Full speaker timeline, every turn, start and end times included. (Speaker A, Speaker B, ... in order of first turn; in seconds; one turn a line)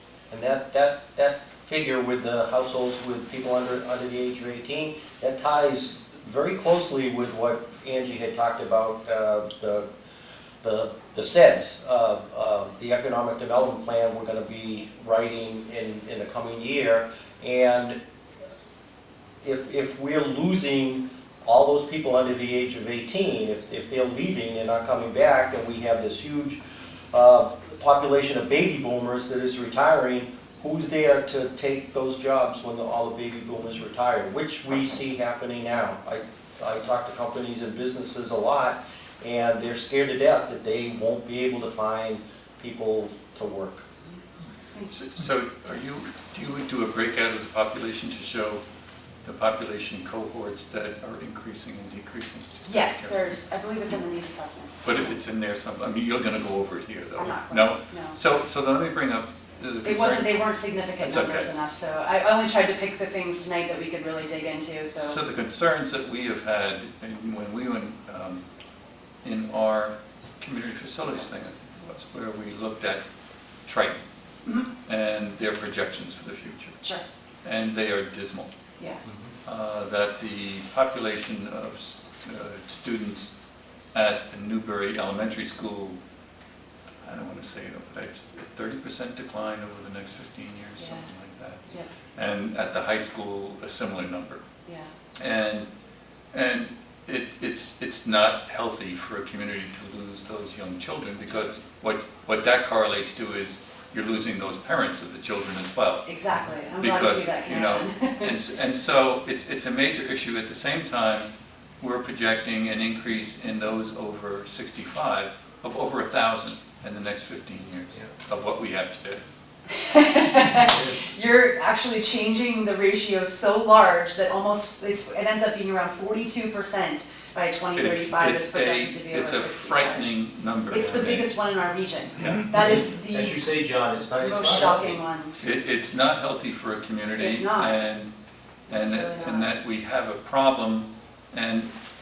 Speaker A: 0.3-9.9
Speaker A: 10.6-18.0
Speaker A: 19.4-26.6
Speaker A: 27.1-43.9
Speaker B: 44.9-48.6
Speaker B: 49.2-53.4
Speaker C: 52.7-54.9
Speaker B: 54.8-61.5
Speaker C: 57.1-58.2
Speaker C: 59.8-65.2
Speaker B: 65.0-68.4
Speaker B: 69.2-73.0
Speaker B: 73.7-74.0
Speaker B: 74.9-76.8
Speaker B: 77.4-78.5
Speaker B: 79.5-83.3
Speaker B: 83.9-86.0
Speaker B: 87.0-94.4
Speaker C: 90.8-91.1
Speaker C: 94.7-94.9
Speaker B: 95.2-95.7
Speaker B: 96.3-111.3
Speaker C: 106.0-108.3
Speaker B: 111.8-119.2
Speaker C: 119.7-130.1
Speaker B: 127.8-131.3
Speaker C: 130.7-133.5
Speaker A: 132.2-135.0
Speaker C: 134.2-135.3
Speaker B: 134.7-138.1
Speaker C: 137.2-137.8
Speaker B: 138.7-141.7
Speaker C: 138.7-139.6